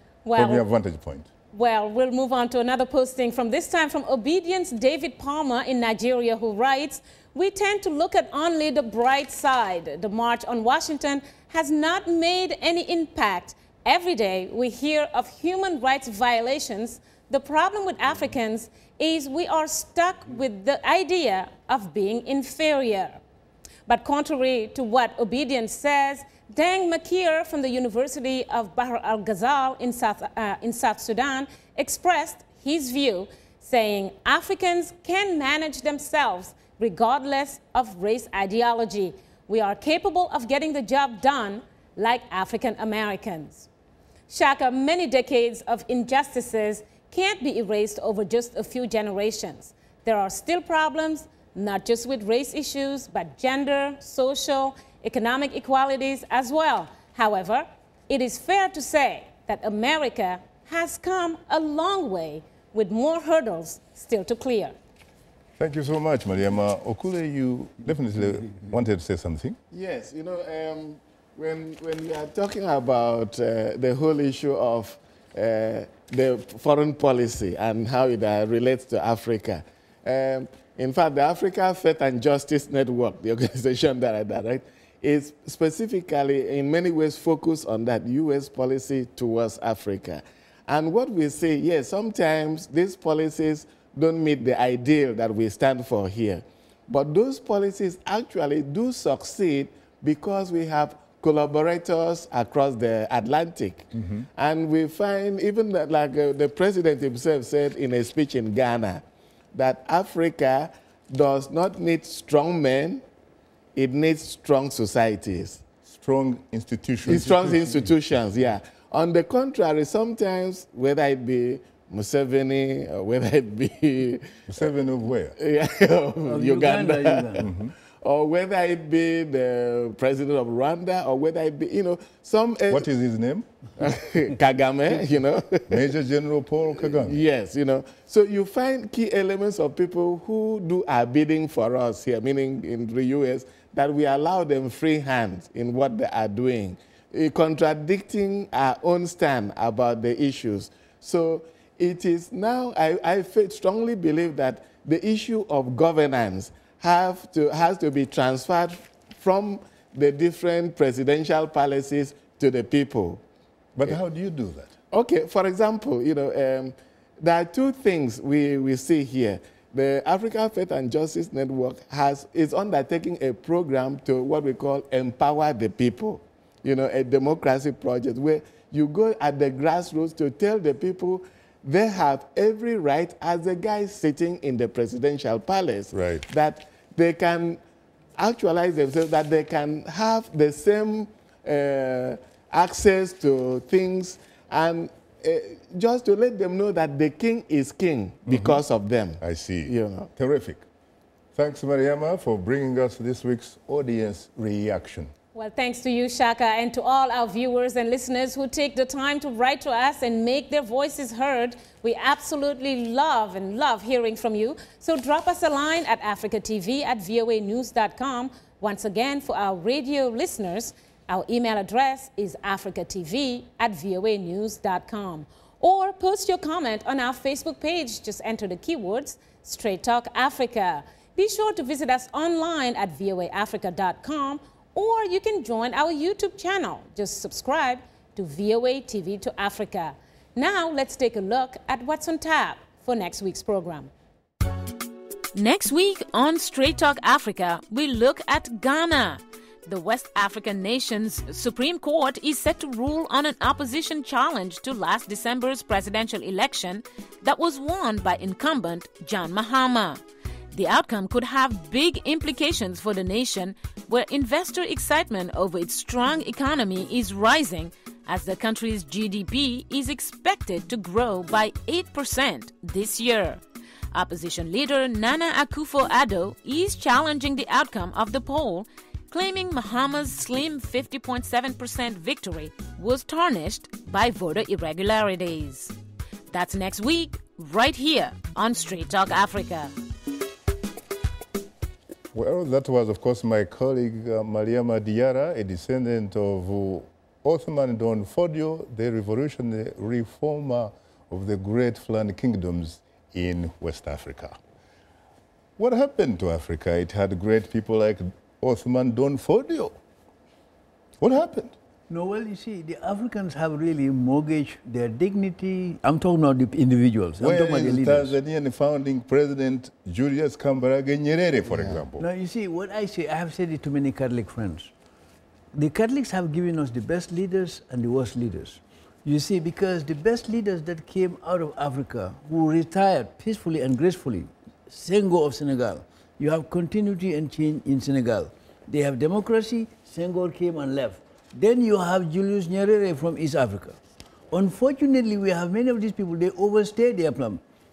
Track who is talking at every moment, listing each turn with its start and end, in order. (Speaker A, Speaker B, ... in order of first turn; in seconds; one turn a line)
Speaker A: 0.2-0.6
Speaker B: 0.3-1.3
Speaker A: 1.5-23.2
Speaker A: 23.9-43.7
Speaker A: 44.3-64.7
Speaker B: 65.6-69.6
Speaker C: 69.7-109.0
Speaker C: 109.5-113.0
Speaker C: 113.8-115.6
Speaker B: 115.8-117.9
Speaker C: 117.0-124.7
Speaker B: 124.5-125.3
Speaker C: 125.3-127.5
Speaker D: 126.2-127.5
Speaker B: 127.4-127.7
Speaker C: 128.0-132.9
Speaker B: 132.7-133.4
Speaker C: 133.8-135.8
Speaker B: 135.7-137.2
Speaker C: 136.8-163.2
Speaker B: 163.8-164.7
Speaker C: 164.9-187.6
Speaker B: 185.9-186.2
Speaker C: 188.2-200.1
Speaker B: 198.2-198.6
Speaker B: 199.2-200.6
Speaker B: 201.3-205.1
Speaker A: 205.3-243.9
Speaker A: 245.3-260.0
Speaker A: 260.5-273.4
Speaker A: 273.9-285.7
Speaker A: 286.3-289.7
Speaker B: 292.1-304.4
Speaker B: 305.6-309.8
Speaker B: 311.0-311.5
Speaker D: 311.9-318.2
Speaker B: 317.2-322.0
Speaker D: 321.4-324.7
Speaker D: 325.5-343.8
Speaker D: 344.3-347.4